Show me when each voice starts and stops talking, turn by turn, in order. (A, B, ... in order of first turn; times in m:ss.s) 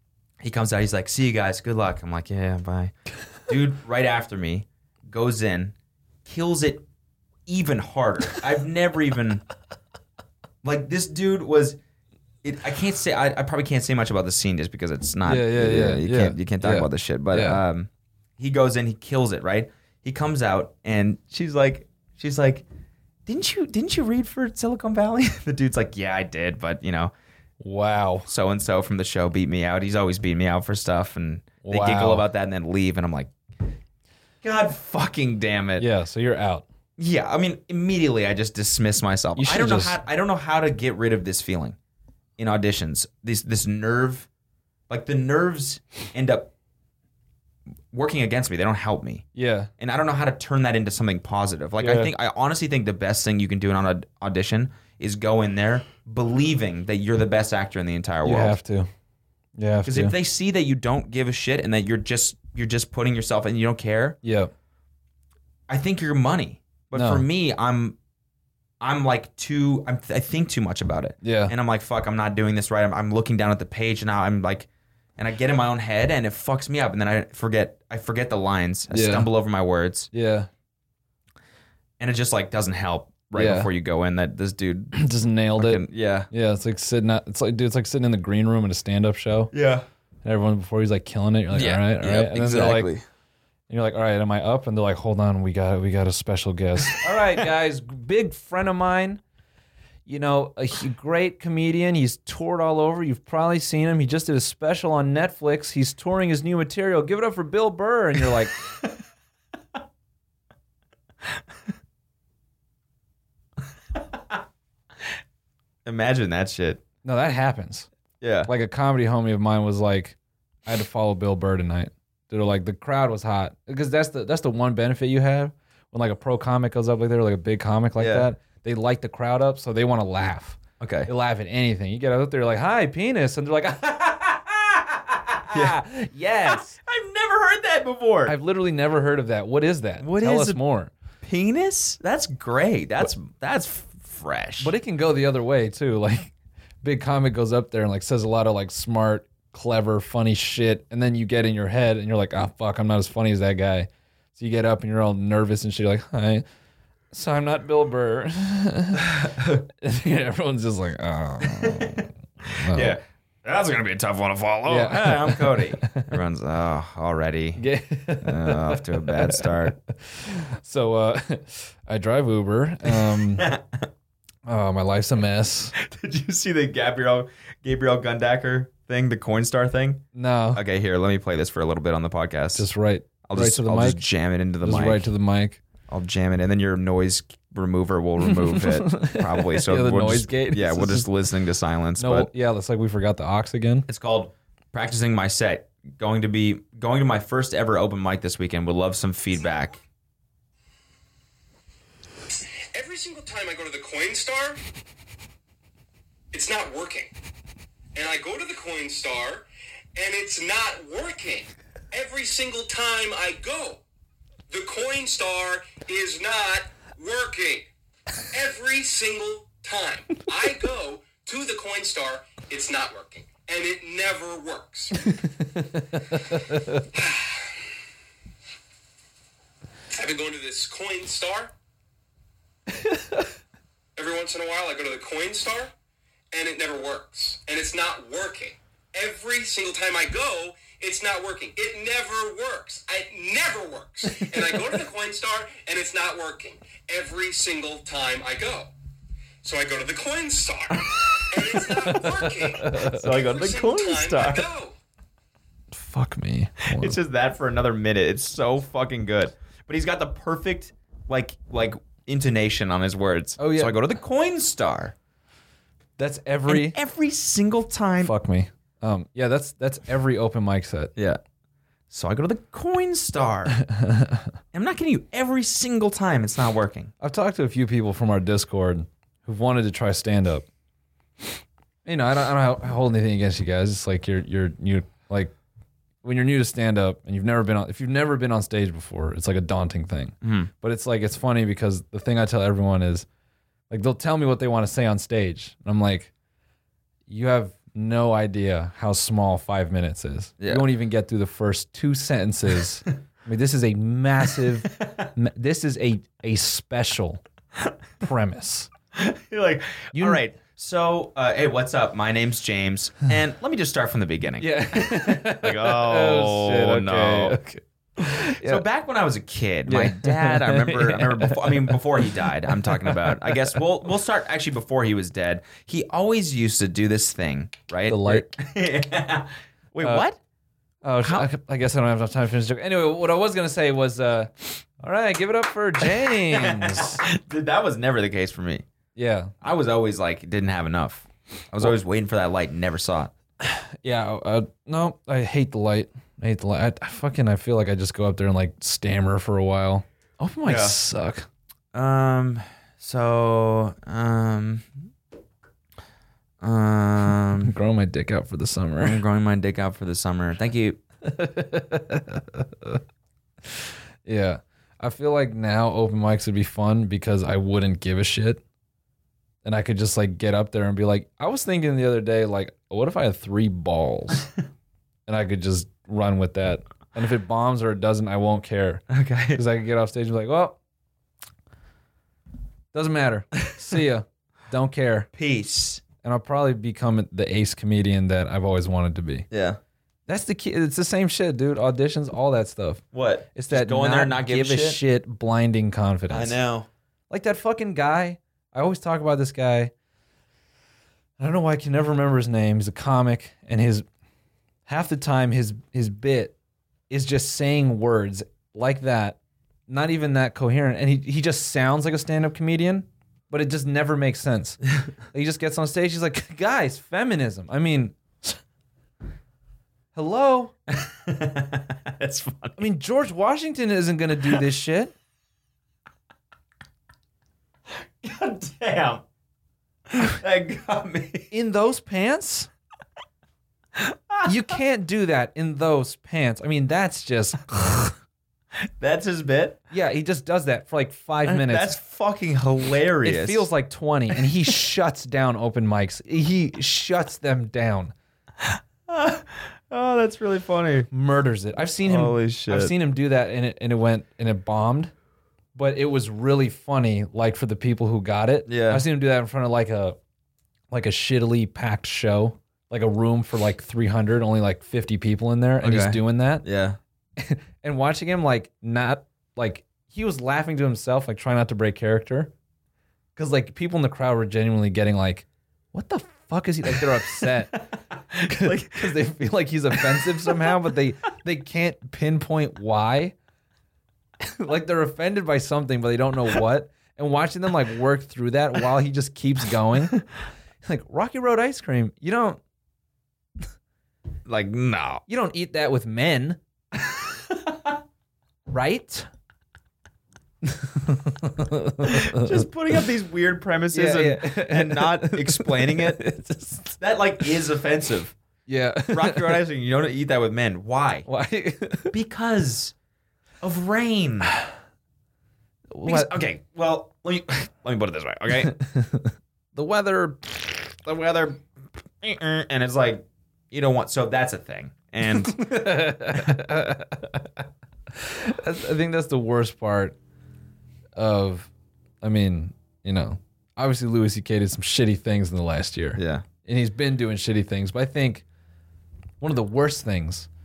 0:00.4-0:05.7 A
0:06.2-0:06.8 A
0:07.5-0:09.4 A
0:10.6-0:11.8 A
0:12.4-0:22.6 A
0:15.2-0:17.6 B
0:23.3-0:27.1 A
0:27.6-0:28.3 B
0:28.3-0:33.3 A
0:31.6-0:32.2 B
0:34.4-0:35.9 A
0:35.8-0:36.6 B
0:37.0-0:41.8 A
0:39.4-0:40.0 B
0:42.4-0:44.3 A
0:44.9-0:46.5 A
0:47.9-0:49.3 A
0:49.4-0:49.7 B
0:49.8-0:58.6 A
0:51.8-0:52.1 B
0:58.2-0:58.9 B
0:59.6-1:00.2 B
0:59.8-1:04.2 A
1:04.2-1:04.5 B
1:05.7-1:08.0 A
1:07.0-1:07.2 B
1:08.8-1:20.1 A
1:11.2-1:11.5 B
1:18.9-1:19.3 B
1:20.1-1:20.5 B
1:22.0-1:25.0 A
1:23.4-1:23.7 B
1:24.9-1:29.5 B
1:25.6-1:26.3 A
1:29.5-1:29.8 A
1:30.2-1:32.9 B
1:31.5-1:33.0 A
1:33.7-1:39.2 B
1:40.1-1:48.6 B
1:55.8-1:56.8 A
1:57.0-1:57.9 B
1:58.2-1:58.5 A
1:58.5-2:16.8 B
2:08.0-2:08.3 A
2:10.8-2:11.1 A
2:15.5-2:15.8 A
2:16.5-2:18.4 A
2:18.3-2:20.9 B
2:20.0-2:20.6 A
2:21.2-2:24.7 A
2:24.6-2:36.4 B
2:37.1-2:39.1 B
2:39.0-2:39.6 A
2:39.7-2:43.0 B
2:41.4-2:47.6 A
2:44.7-2:46.1 B
2:47.6-2:53.5 B
2:48.2-2:49.8 A
2:52.9-2:53.9 A
2:54.4-2:55.7 B
2:55.8-3:02.7 A
3:00.1-3:00.6 B
3:02.6-3:04.0 B
3:03.2-3:05.1 A
3:04.6-3:05.6 B
3:05.9-3:12.3 A
3:08.3-3:11.1 B
3:12.0-3:13.9 B
3:13.9-3:19.8 A
3:22.7-3:24.6 C
3:26.3-3:27.1 C
3:28.0-3:33.8 C
3:34.5-3:37.7 C
3:38.3-3:45.0 C
3:45.0-3:46.9 B
3:47.0-3:47.4 C
3:49.9-3:51.5 C
3:52.7-3:53.3 B
3:54.0-3:55.7 C
3:56.3-4:08.7 C
4:09.4-4:14.8 C
4:10.9-4:12.1 A
4:11.7-4:13.1 B
4:12.7-4:14.5 A
4:15.7-4:17.0 B
4:16.6-4:25.0 A
4:23.4-4:23.8 B
4:26.0-4:26.8 B
4:26.5-4:28.1 A
4:28.0-4:30.9 B
4:31.9-4:33.6 A
4:33.6-4:34.3 B
4:34.5-4:36.9 A
4:37.0-4:40.5 B
4:41.8-4:45.3 B
4:46.0-4:53.1 B
4:50.2-4:50.5 A
4:53.7-4:56.1 B
4:57.1-5:07.2 B
5:00.4-5:00.7 A
5:08.0-5:08.7 B
5:09.0-5:17.4 A
5:09.9-5:10.2 B
5:14.4-5:18.6 B
5:18.1-5:30.2 A
5:19.7-5:23.6 B
5:27.9-5:28.3 B
5:30.8-5:37.0 B
5:31.0-5:31.3 A
5:36.1-5:38.7 A
5:39.0-5:39.3 B
5:39.4-5:43.1 A
5:43.4-5:51.3 B
5:50.5-5:50.8 A
5:51.7-5:54.7 A
5:56.4-5:57.6 A
5:57.4-5:59.0 B
5:58.8-6:00.8 A
6:01.0-6:02.8 B
6:03.5-6:08.4 B
6:09.4-6:14.3 B
6:15.1-6:20.6 B
6:18.9-6:19.4 A
6:22.7-6:25.1 B
6:25.1-6:25.8 A
6:26.0-6:29.3 B
6:29.3-6:29.6 A
6:30.1-6:32.8 B
6:32.9-6:34.8 A
6:33.4-6:36.4 B
6:36.1-6:36.7 A
6:37.1-6:39.7 B
6:41.2-6:43.8 B
6:44.7-6:46.4 B
6:46.9-6:58.4 B
6:59.9-7:00.5 B
7:00.7-7:02.6 A
7:02.6-7:04.9 B
7:08.0-7:09.0 A
7:09.9-7:11.3 A
7:11.3-7:12.5 B
7:13.8-7:14.3 A
7:14.2-7:17.9 B
7:18.8-7:19.6 A
7:19.7-7:21.8 B
7:21.3-7:23.5 A
7:23.0-7:27.9 B
7:28.4-7:30.9 A
7:30.9-7:34.9 B
7:31.8-7:32.7 A
7:35.6-7:40.0 B
7:38.5-7:38.8 A
7:40.7-7:46.4 B
7:45.6-7:46.8 A
7:47.2-7:52.3 B
7:53.2-7:57.6 B
7:56.8-7:59.0 A
7:58.2-8:03.2 B
7:59.8-8:00.5 A
8:04.2-8:10.0 B
8:10.6-8:12.4 B
8:14.3-8:15.0 A
8:15.1-8:16.4 B
8:17.4-8:17.7 A
8:18.5-8:19.1 B
8:20.4-8:22.5 B
8:21.8-8:26.0 A
8:23.7-8:27.3 B
8:26.8-8:28.2 A
8:28.5-8:29.4 B
8:28.9-8:31.1 A
8:31.1-8:32.0 B
8:31.9-8:32.7 A
8:33.4-8:34.4 A
8:35.7-8:36.2 B
8:35.8-8:38.6 A
8:38.4-8:40.8 B
8:40.8-8:41.4 A
8:42.0-8:45.6 A
8:45.1-8:50.0 B
8:51.0-8:51.5 B
8:52.0-8:58.2 B
8:56.0-8:56.2 A
8:59.2-9:00.3 B